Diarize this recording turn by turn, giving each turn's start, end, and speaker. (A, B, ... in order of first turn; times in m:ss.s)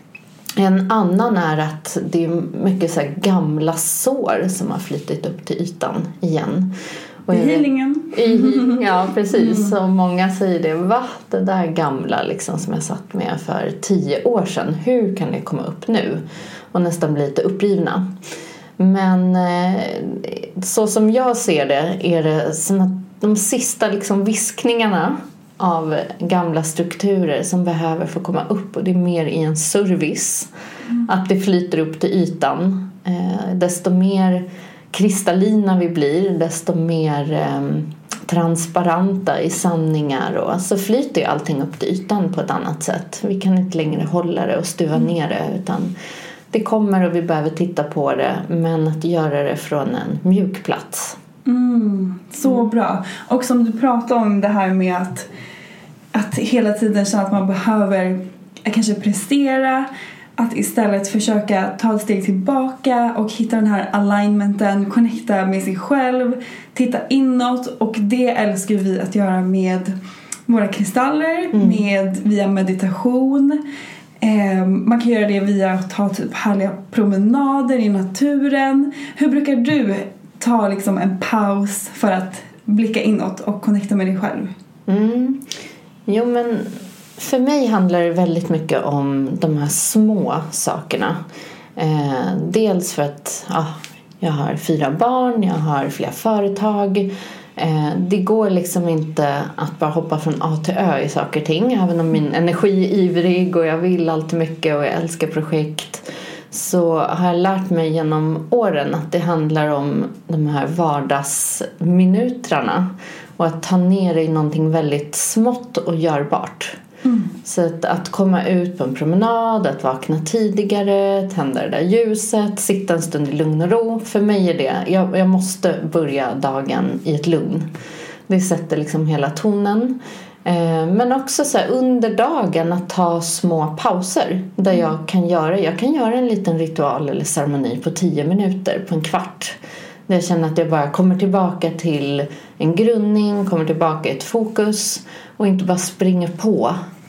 0:00.6-0:06.7 A
0:07.3-0:18.1 A
0:07.3-0:09.7 B
0:18.8-0:30.5 A
0:31.0-0:45.9 A
0:46.5-0:51.2 A
0:51.4-0:55.3 B
0:56.1-1:09.9 B
1:10.5-1:13.6 B
1:11.5-1:11.8 A
1:14.2-1:24.5 B
1:24.9-1:25.5 A
1:26.1-1:31.2 A
1:31.8-1:56.8 A
1:57.0-1:57.3 B
1:57.4-2:07.7 A
2:08.3-2:19.6 A
2:20.1-2:26.8 A